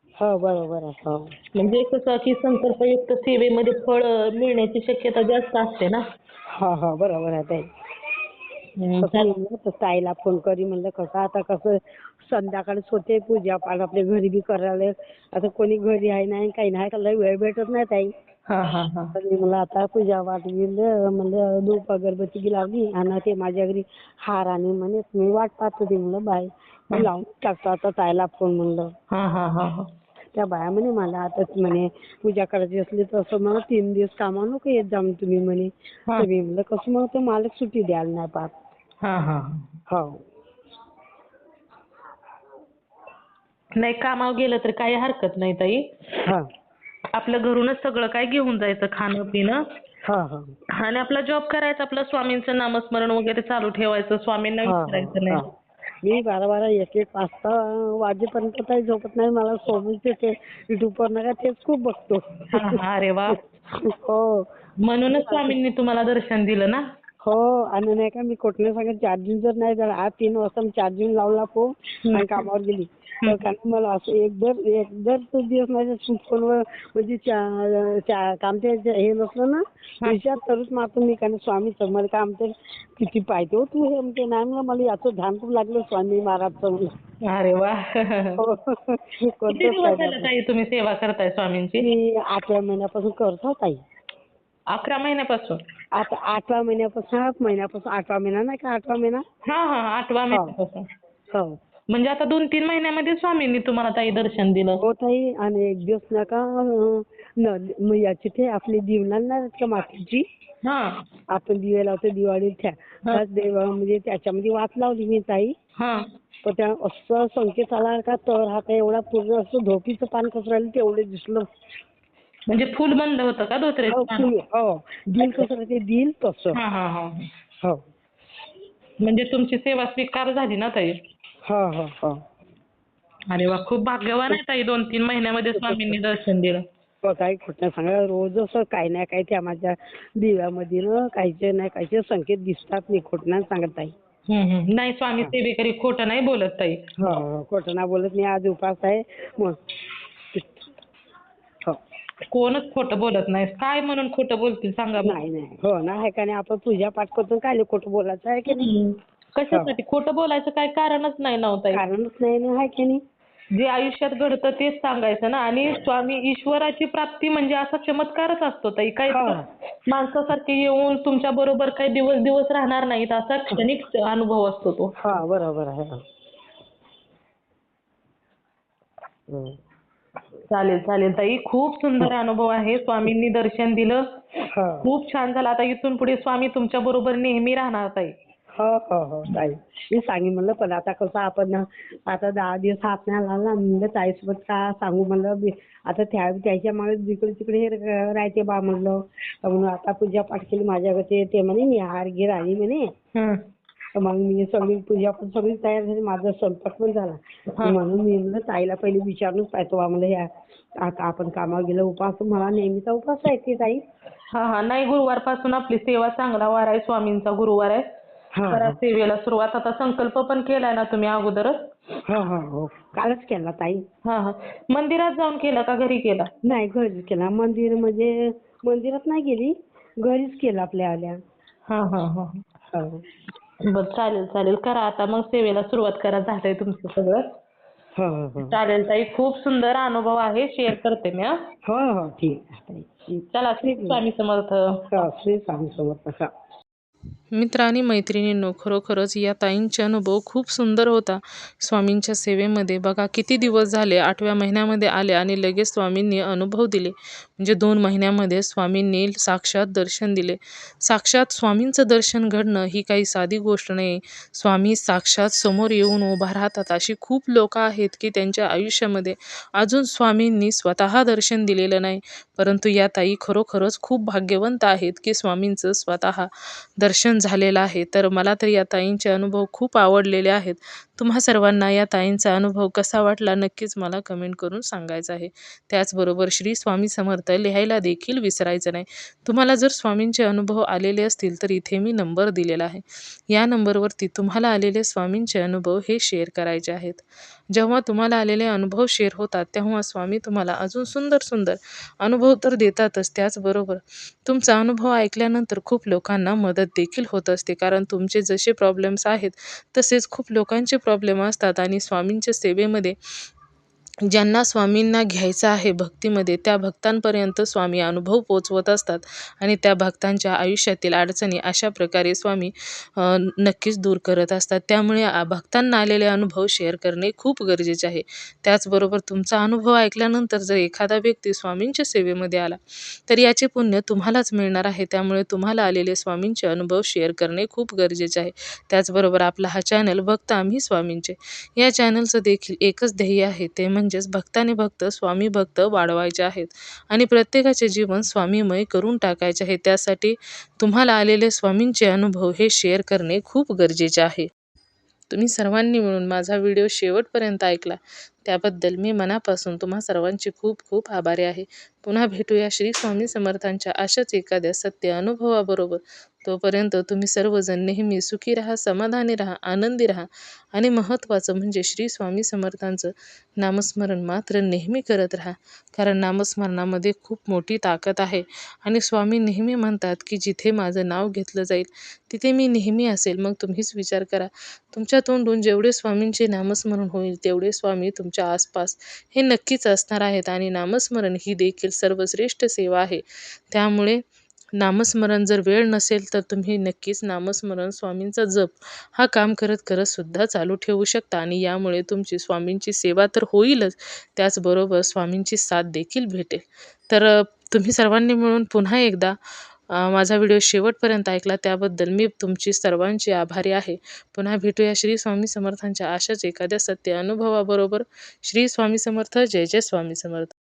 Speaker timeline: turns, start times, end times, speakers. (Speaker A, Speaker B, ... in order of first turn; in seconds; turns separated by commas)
Speaker A: 0.2-1.3, Speaker B: 1.5-6.0, Speaker A: 6.5-7.7, Speaker B: 8.8-9.3, Speaker A: 9.0-18.1, Speaker B: 18.5-19.1, Speaker A: 19.1-28.9, Speaker B: 29.1-29.9, Speaker A: 30.3-38.5, Speaker B: 39.0-39.7, Speaker A: 39.9-40.2, Speaker B: 43.8-45.8, Speaker B: 47.1-49.6, Speaker A: 50.0-50.5, Speaker B: 50.8-55.4, Speaker A: 54.6-55.5, Speaker A: 56.0-64.5, Speaker B: 62.5-63.4, Speaker B: 64.8-66.8, Speaker A: 65.1-65.5, Speaker A: 67.2-86.9, Speaker B: 72.0-72.5, Speaker B: 87.2-88.4, Speaker A: 88.4-90.3, Speaker B: 89.5-91.8, Speaker A: 91.8-93.8, Speaker B: 94.7-95.6, Speaker A: 95.9-99.2, Speaker B: 99.4-100.9, Speaker A: 101.3-101.6, Speaker B: 101.9-104.8, Speaker A: 104.8-110.2, Speaker B: 110.6-111.0, Speaker A: 111.3-115.5, Speaker B: 115.8-116.0, Speaker A: 116.4-121.5, Speaker B: 122.5-124.3, Speaker A: 123.9-126.6, Speaker B: 125.2-125.5, Speaker B: 126.5-127.3, Speaker B: 129.0-131.0, Speaker A: 131.4-132.2, Speaker B: 133.3-136.6, Speaker A: 135.5-136.0, Speaker A: 137.0-143.9, Speaker B: 144.3-146.8, Speaker A: 147.0-149.6, Speaker A: 150.3-150.6, Speaker B: 152.3-155.2, Speaker A: 155.0-158.7, Speaker B: 158.5-161.8, Speaker A: 161.7-163.0, Speaker B: 163.5-175.0, Speaker A: 169.1-169.4, Speaker A: 175.0-176.0, Speaker A: 179.3-179.6, Speaker B: 180.5-188.1, Speaker A: 184.5-184.9, Speaker A: 188.6-202.9, Speaker B: 203.1-203.4, Speaker A: 203.9-210.3, Speaker A: 210.8-213.8, Speaker B: 214.3-217.8, Speaker A: 218.3-218.8, Speaker B: 218.5-221.6, Speaker A: 222.1-223.8, Speaker B: 224.0-226.3, Speaker A: 226.4-231.2, Speaker B: 231.7-232.4, Speaker A: 232.7-233.0, Speaker B: 233.7-237.2, Speaker A: 237.9-238.6, Speaker B: 238.4-241.3, Speaker A: 241.7-244.0, Speaker B: 243.3-245.1, Speaker A: 244.9-246.3, Speaker C: 247.3-312.9, Speaker C: 314.1-354.3, Speaker C: 355.1-394.0, Speaker C: 394.6-409.1, Speaker C: 409.7-420.3